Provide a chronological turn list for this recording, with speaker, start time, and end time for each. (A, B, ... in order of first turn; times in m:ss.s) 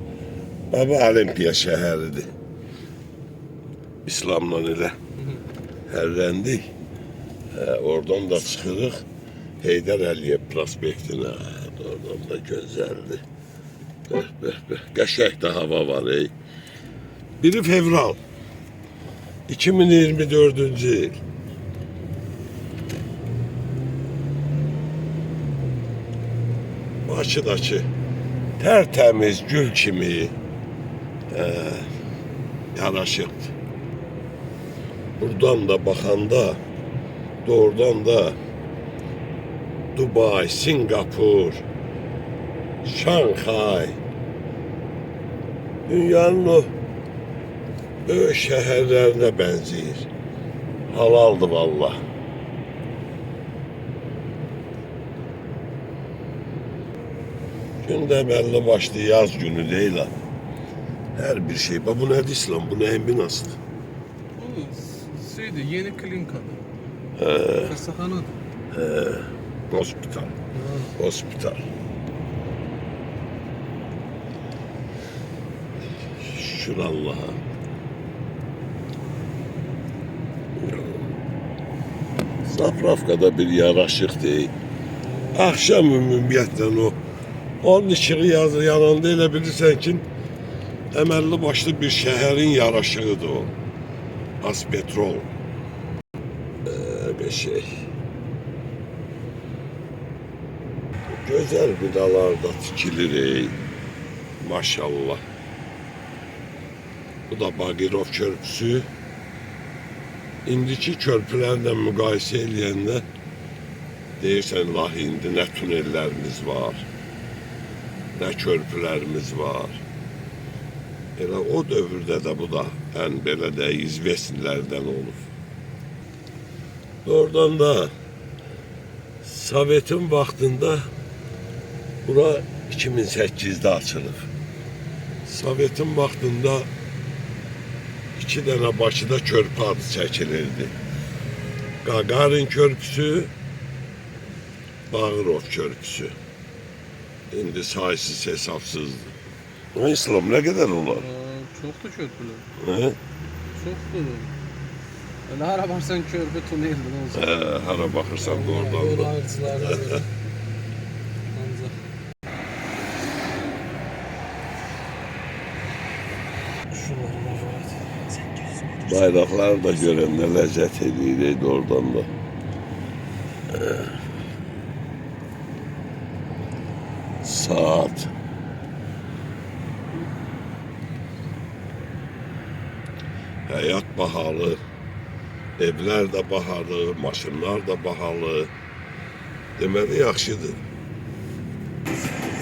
0:00.7-0:02.3 A
0:04.0-0:05.0 A
0:05.9-0:06.6 A
0:07.5-0:09.0 A
0:09.6-0:13.2 A
0:14.1-0:16.3 A
0:17.4-0:18.2 A
0:19.5-0:21.2 A
0:27.1-0:27.9 A
0:28.6-0:30.3 A
0:31.3-0:31.9 A
0:32.7-0:33.5 A
0:35.2-0:36.6 A
0:37.4-0:38.4 A
0:40.0-0:41.6 A
0:42.8-0:44.0 A
0:45.9-0:46.7 A
0:48.1-0:50.1 A
0:50.9-0:52.0 A
0:57.8-1:00.1 A
1:01.2-1:03.6 A
1:04.4-1:06.6 B
1:07.2-1:07.8 A
1:07.6-1:08.3 B
1:08.7-1:10.4 A
1:10.6-1:10.9 B
1:10.9-1:11.6 A
1:16.2-1:17.4 A
1:20.6-1:21.0 A
1:22.4-1:24.5 A
1:25.3-1:27.0 A
1:27.6-1:30.0 A
1:30.9-1:33.5 A
1:34.4-1:35.3 A
1:36.6-1:37.8 A
1:41.1-1:43.6 A
1:44.4-1:45.2 A
1:47.3-1:48.9 A
1:50.5-1:53.0 A
1:54.2-1:56.9 A
1:58.2-1:59.8 A
2:01.2-2:05.2 A
2:07.0-2:07.9 A
2:09.2-2:10.9 A
2:12.0-2:14.3 A
2:15.2-2:16.7 A
2:18.2-2:20.7 A
2:21.8-2:23.3 A
2:24.9-2:26.2 A
2:27.3-2:29.2 A
2:29.7-2:31.1 A
2:31.0-2:32.5 B
2:32.6-2:33.0 A
2:33.5-2:34.3 B
2:35.3-2:37.4 B
2:37.1-2:40.0 A
2:38.0-2:40.1 B
2:41.3-2:41.8 B
2:46.7-2:48.8 B
2:48.8-2:52.1 A
2:53.5-2:53.9 A
2:57.2-2:58.1 A
3:03.5-3:04.6 A
3:05.6-3:08.5 A
3:09.6-3:10.6 A